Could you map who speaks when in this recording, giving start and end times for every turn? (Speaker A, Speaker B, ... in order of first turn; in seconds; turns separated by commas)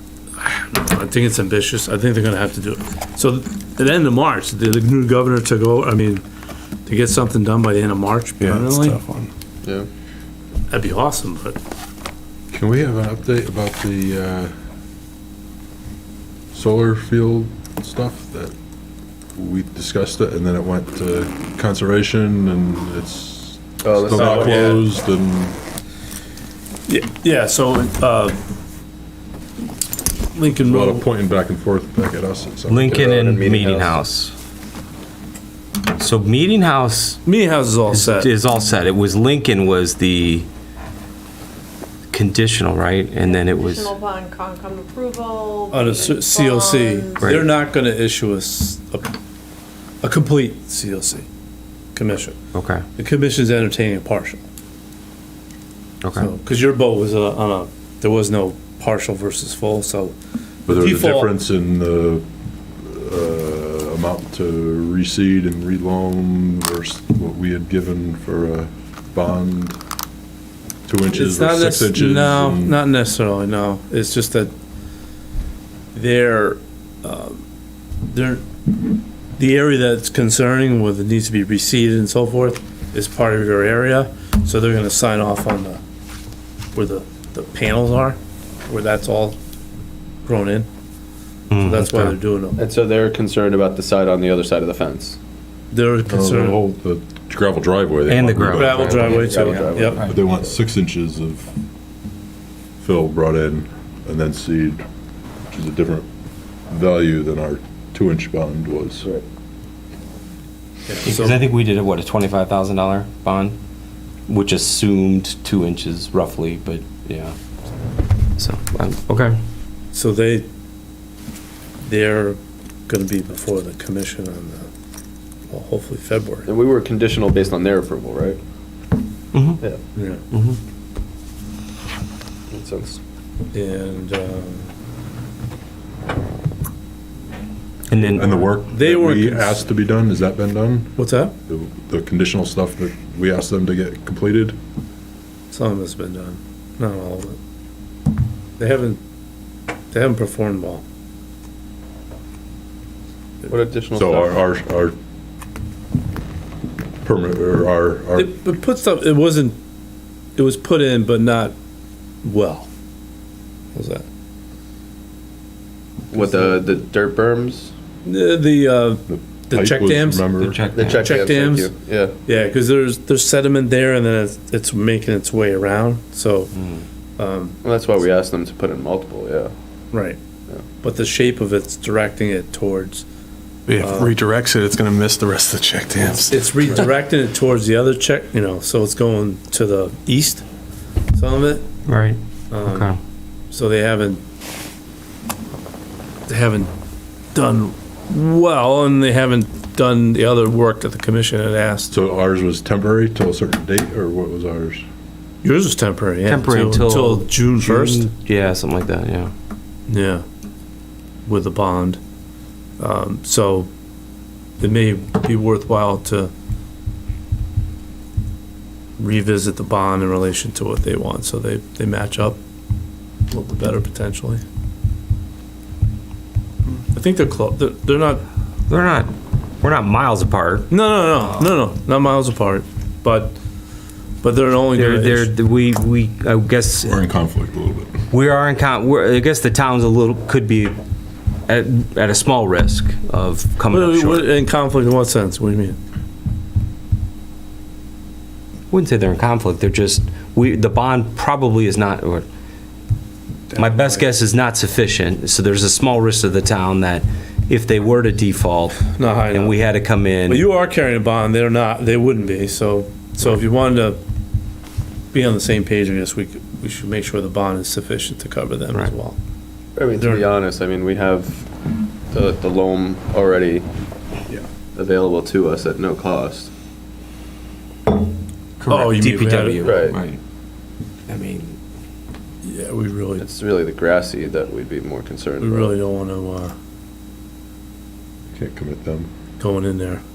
Speaker A: 0.4-6.2, Speaker A: 6.9-9.0, Speaker B: 8.4-9.3, Speaker A: 10.7-11.6, Speaker C: 12.5-14.5, Speaker C: 16.5-18.5, Speaker C: 19.4-25.6, Speaker D: 23.8-24.8, Speaker A: 24.1-24.8, Speaker A: 26.9-28.4, Speaker A: 30.3-31.1, Speaker C: 30.6-33.0, Speaker E: 32.7-34.4, Speaker D: 32.9-34.0, Speaker E: 36.0-37.2, Speaker A: 37.2-38.3, Speaker E: 37.9-40.5, Speaker E: 42.1-44.0, Speaker F: 43.2-47.2, Speaker A: 45.7-49.1, Speaker E: 47.2-47.5, Speaker A: 50.0-51.3, Speaker A: 52.0-52.4, Speaker E: 52.5-52.8, Speaker A: 53.0-54.5, Speaker E: 56.0-56.3, Speaker A: 56.1-61.3, Speaker C: 60.7-62.3, Speaker C: 62.8-69.8, Speaker C: 70.9-72.8, Speaker A: 71.1-74.5, Speaker A: 75.9-77.5, Speaker A: 78.0-78.5, Speaker A: 79.4-85.8, Speaker A: 86.7-89.4, Speaker A: 90.2-90.7, Speaker E: 91.5-92.2, Speaker A: 91.6-92.6, Speaker D: 92.6-95.2, Speaker A: 95.7-96.6, Speaker C: 96.1-99.1, Speaker E: 98.1-100.2, Speaker A: 98.5-100.0, Speaker D: 98.9-100.2, Speaker C: 100.0-101.5, Speaker C: 102.8-104.8, Speaker C: 105.5-106.1, Speaker C: 106.7-109.1, Speaker A: 110.9-111.5, Speaker E: 111.0-113.6, Speaker E: 114.3-117.4, Speaker E: 118.4-119.4, Speaker A: 119.9-120.5, Speaker A: 121.8-124.7, Speaker A: 125.5-126.5, Speaker D: 126.5-128.4, Speaker E: 129.3-129.6, Speaker A: 129.9-130.2, Speaker E: 130.3-130.6, Speaker D: 132.5-133.0, Speaker A: 133.5-134.7, Speaker E: 137.9-138.4, Speaker C: 138.1-141.0, Speaker A: 138.2-139.7, Speaker A: 141.0-141.4, Speaker C: 141.5-144.6, Speaker A: 145.5-147.4, Speaker A: 148.6-149.0, Speaker A: 149.9-150.8, Speaker D: 153.4-154.4, Speaker C: 153.9-154.9, Speaker C: 157.0-158.3, Speaker A: 158.2-159.6, Speaker A: 160.4-161.6, Speaker A: 162.2-162.7, Speaker A: 163.7-164.1, Speaker D: 166.1-167.7, Speaker A: 166.2-166.6, Speaker A: 168.1-170.3, Speaker C: 169.1-170.6, Speaker E: 170.4-171.2, Speaker D: 170.8-172.2, Speaker A: 170.9-171.7, Speaker A: 172.2-176.5, Speaker E: 176.5-176.9, Speaker A: 177.2-177.6, Speaker D: 177.6-179.5, Speaker A: 179.9-180.2, Speaker A: 180.8-183.1, Speaker B: 183.7-186.2, Speaker A: 183.8-184.1, Speaker A: 186.3-190.4, Speaker A: 191.1-191.7, Speaker E: 191.9-193.0, Speaker A: 192.5-192.9, Speaker A: 193.5-194.2, Speaker A: 196.3-196.7, Speaker A: 197.3-201.9, Speaker C: 201.9-204.8, Speaker A: 205.4-208.1, Speaker E: 206.3-209.3, Speaker A: 209.9-210.2, Speaker A: 211.3-212.0, Speaker A: 212.8-213.7, Speaker A: 214.6-216.3, Speaker A: 219.0-222.4, Speaker A: 223.3-224.4, Speaker A: 226.8-228.2, Speaker E: 228.7-230.7, Speaker A: 230.7-233.4, Speaker A: 234.2-235.3, Speaker E: 234.7-237.0, Speaker C: 236.8-238.0, Speaker E: 238.1-240.8, Speaker E: 241.5-244.3, Speaker A: 243.7-245.8, Speaker E: 248.7-252.3, Speaker E: 253.6-260.5, Speaker A: 253.6-254.0, Speaker A: 258.9-259.6, Speaker A: 260.3-264.0, Speaker A: 265.1-269.2, Speaker D: 269.8-271.5, Speaker A: 270.0-270.3, Speaker D: 272.1-273.7, Speaker D: 274.7-276.5, Speaker E: 278.6-280.2, Speaker A: 278.7-279.8, Speaker D: 279.6-280.0, Speaker E: 281.1-281.6, Speaker A: 282.4-283.3, Speaker D: 283.2-285.7, Speaker A: 285.4-286.6, Speaker C: 288.3-289.1, Speaker A: 289.4-290.0